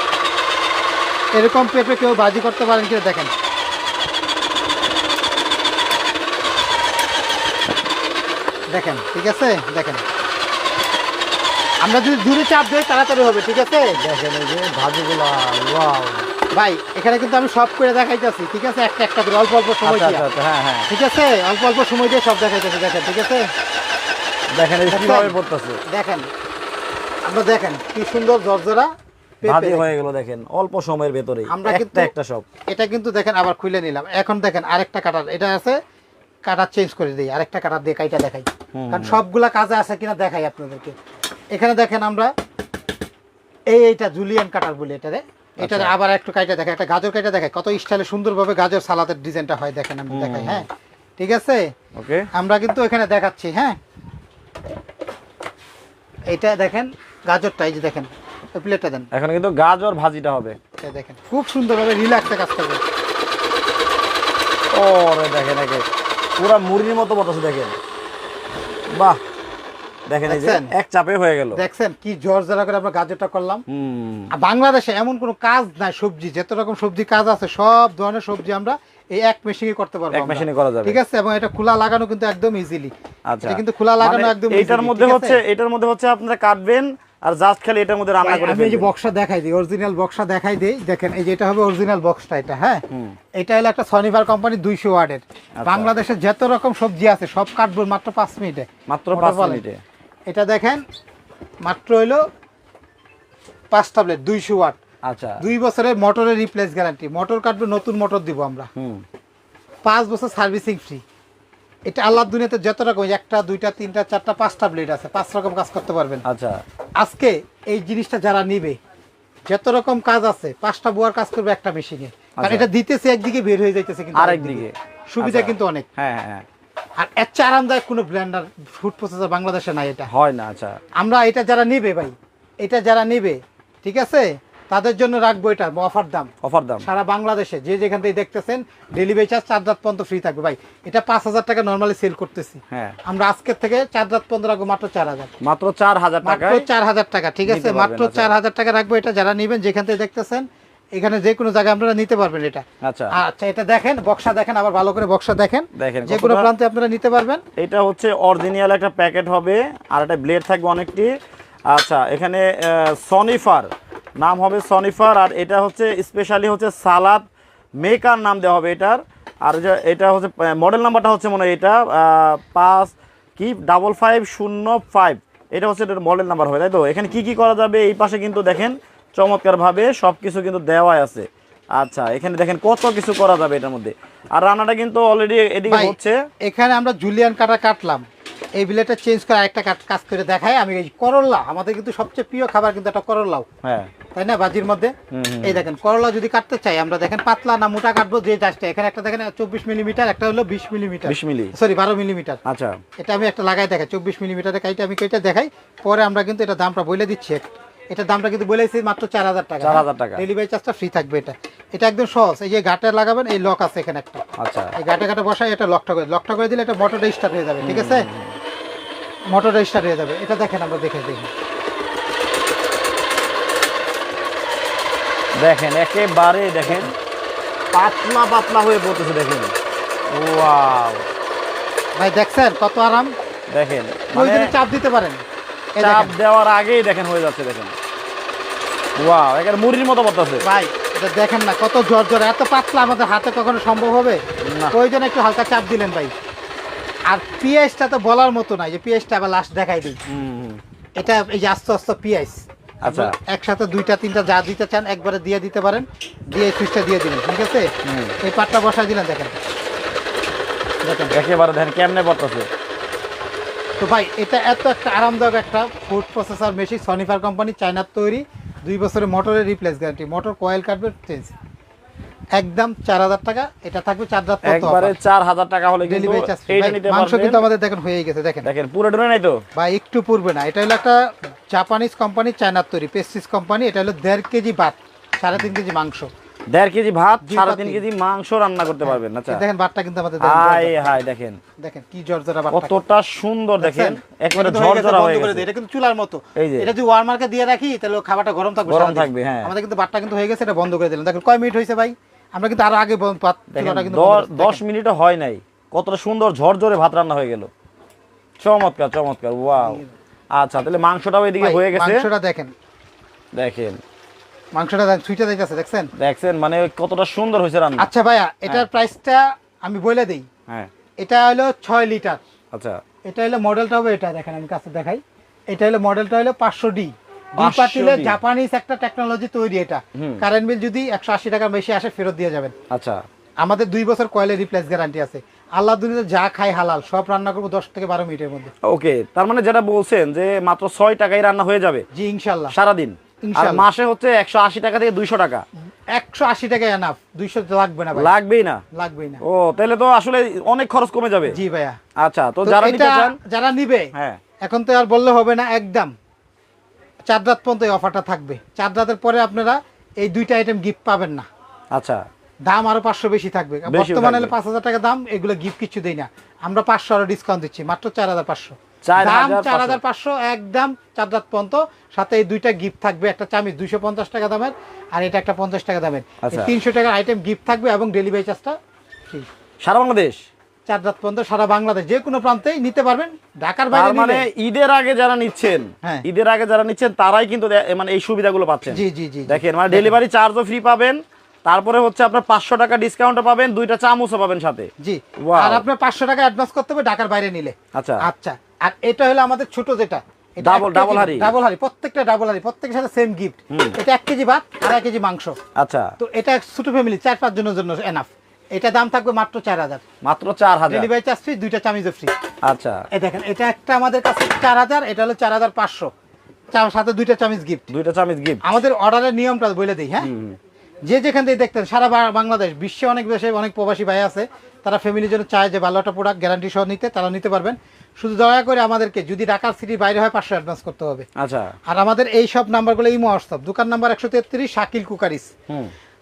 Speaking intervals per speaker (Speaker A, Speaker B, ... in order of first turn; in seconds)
Speaker A: 1.3-3.3, 8.7-10.0, 11.8-14.0, 16.5-20.2, 20.9-23.5, 24.9-25.3, 25.9-26.3, 27.3-28.9, 29.4-29.9, 31.5-32.1, 32.7-35.8, 36.5-40.9, 41.5-42.3, 43.7-50.7, 51.2-51.7, 52.3-53.8, 56.3-59.1, 60.8-62.8, 70.3-70.7, 71.5-73.6, 74.3-82.9, 83.4-85.4, 88.2-92.8, 93.4-99.6, 100.3-100.8, 101.6-102.2, 103.7-104.8, 105.4-108.7, 109.8-111.0, 111.9-116.2, 117.0-118.8, 119.5-125.9, 127.0-130.1, 131.0-145.3, 146.2-157.4, 185.7-188.0, 188.6-193.5, 194.1-202.4, 203.0-214.2, 214.8-218.1, 219.3-221.3, 226.7-226.9, 232.0-233.1, 234.1-235.2, 235.8-236.2, 240.4-244.2, 244.7-246.1, 247.1-250.0, 251.0-257.7, 258.2-259.4, 260.8-261.1, 263.8-271.3, 272.4-274.9, 275.8-278.4, 279.6-281.0, 281.5-286.1, 287.2-287.8, 288.9-290.9, 291.6-292.8, 293.6-304.6, 309.6-309.9, 311.4-312.5, 314.5-315.9, 317.8-320.2, 321.0-322.2, 323.1-332.5, 333.4-338.5, 341.9-342.5, 343.2-343.6, 345.9-348.1, 348.8-349.2, 351.3-351.8, 352.4-353.9, 354.4-355.9, 357.1-361.2, 362.5-378.5, 380.7-384.3, 388.7-389.9, 394.8-405.4, 406.0-409.8, 410.7-412.1, 412.9-415.9, 416.5-417.7, 418.4-420.1, 420.9-431.1, 431.7-435.3
Speaker B: 14.0-16.3, 19.8-20.9, 24.5-25.8, 29.4-32.4, 38.8-39.2, 45.6-45.9, 50.1-50.7, 52.0-52.2, 59.1-60.6, 64.7-65.8, 66.4-67.8, 68.9-69.2, 70.1-71.6, 73.7-74.3, 80.1-81.0, 83.3-88.9, 92.9-93.2, 95.6-95.9, 98.9-99.8, 105.1-105.4, 108.8-109.0, 116.3-116.6, 122.4-122.7, 124.2-126.5, 130.1-130.8, 136.4-136.8, 142.7-143.0, 145.4-146.7, 147.5-148.3, 152.8-153.1, 155.8-156.5, 157.6-161.1, 161.7-167.2, 167.8-186.2, 193.6-193.9, 195.1-195.6, 201.1-201.6, 202.5-202.8, 209.6-210.2, 214.4-214.7, 217.6-218.4, 225.4-226.9, 227.7-229.5, 230.1-231.1, 233.5-234.5, 235.8-237.8, 239.0-240.4, 244.4-244.7, 250.1-250.6, 252.8-253.2, 257.9-258.2, 261.1-262.5, 274.4-277.4, 278.4-279.4, 286.5-289.4, 290.2-291.4, 292.5-295.5, 296.4-296.7, 298.7-299.5, 303.5-307.5, 308.4-309.8, 310.3-312.1, 313.4-313.8, 316.0-317.9, 322.5-322.8, 327.4-328.2, 330.0-330.2, 332.7-333.0, 338.6-341.9, 342.5-345.4, 347.9-348.6, 349.2-351.4, 352.0-353.2, 353.9-354.2, 361.7-362.0, 363.7-364.3, 368.9-369.8, 376.2-376.5, 379.6-380.2, 383.7-394.7, 395.2-395.6, 397.8-398.0, 400.4-401.3, 403.5-403.8, 405.6-405.9, 410.0-410.9, 412.4-412.8, 417.7-418.4, 420.0-420.4, 431.2-431.5